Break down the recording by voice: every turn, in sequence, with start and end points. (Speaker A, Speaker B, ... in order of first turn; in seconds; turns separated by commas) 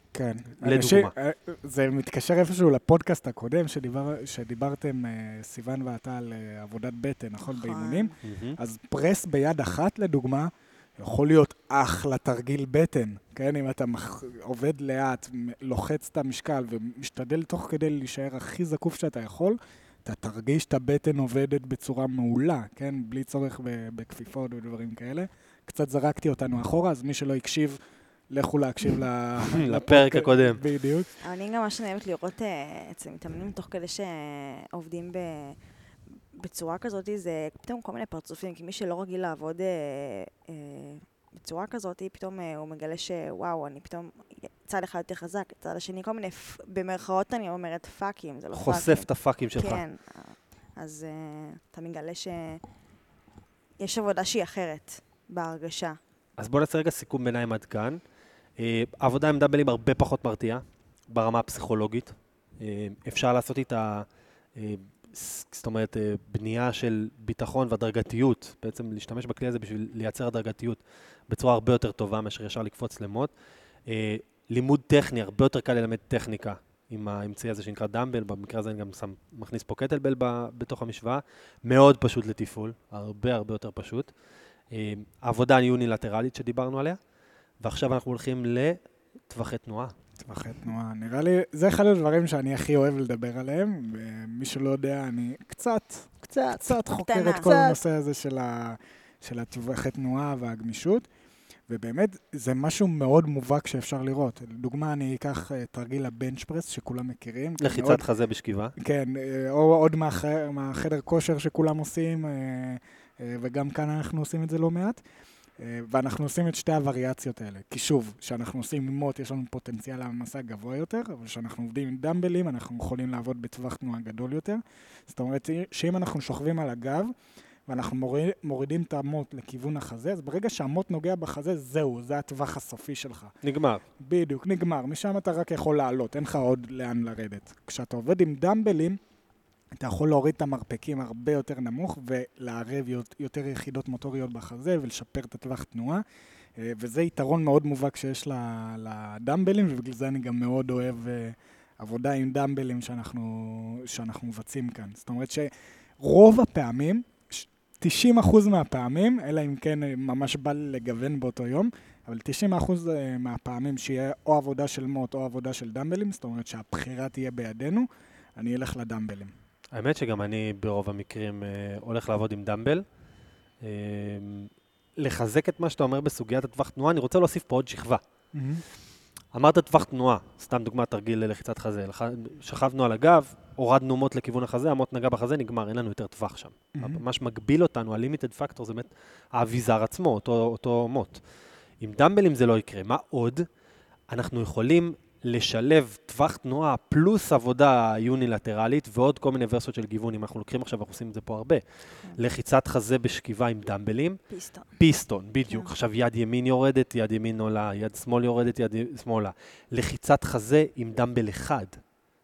Speaker A: 0.1-27.8, Speaker B: 0.6-1.1, Speaker C: 7.5-8.2, Speaker B: 8.2-8.6, Speaker A: 28.3-31.1, Speaker B: 29.5-30.6, Speaker C: 31.2-35.6, Speaker C: 36.3-52.6, Speaker B: 48.5-49.8, Speaker C: 53.8-56.0, Speaker B: 56.4-58.0, Speaker B: 58.6-73.3, Speaker B: 73.9-84.1, Speaker B: 84.7-87.0, Speaker B: 87.6-90.0, Speaker A: 90.2-101.1, Speaker B: 96.2-96.7, Speaker C: 96.8-97.6, Speaker B: 97.4-97.8, Speaker A: 101.7-108.0, Speaker B: 107.6-108.7, Speaker A: 108.8-115.0, Speaker A: 115.6-127.1, Speaker A: 127.7-133.3, Speaker B: 133.4-133.8, Speaker A: 134.0-139.0, Speaker A: 139.8-146.0, Speaker A: 146.6-169.3, Speaker B: 169.7-172.8, Speaker B: 173.6-178.0, Speaker A: 178.3-178.6, Speaker B: 179.3-191.2, Speaker A: 186.8-187.0, Speaker B: 191.8-193.5, Speaker B: 194.1-204.2, Speaker C: 204.3-204.8, Speaker B: 204.8-211.8, Speaker C: 205.5-205.7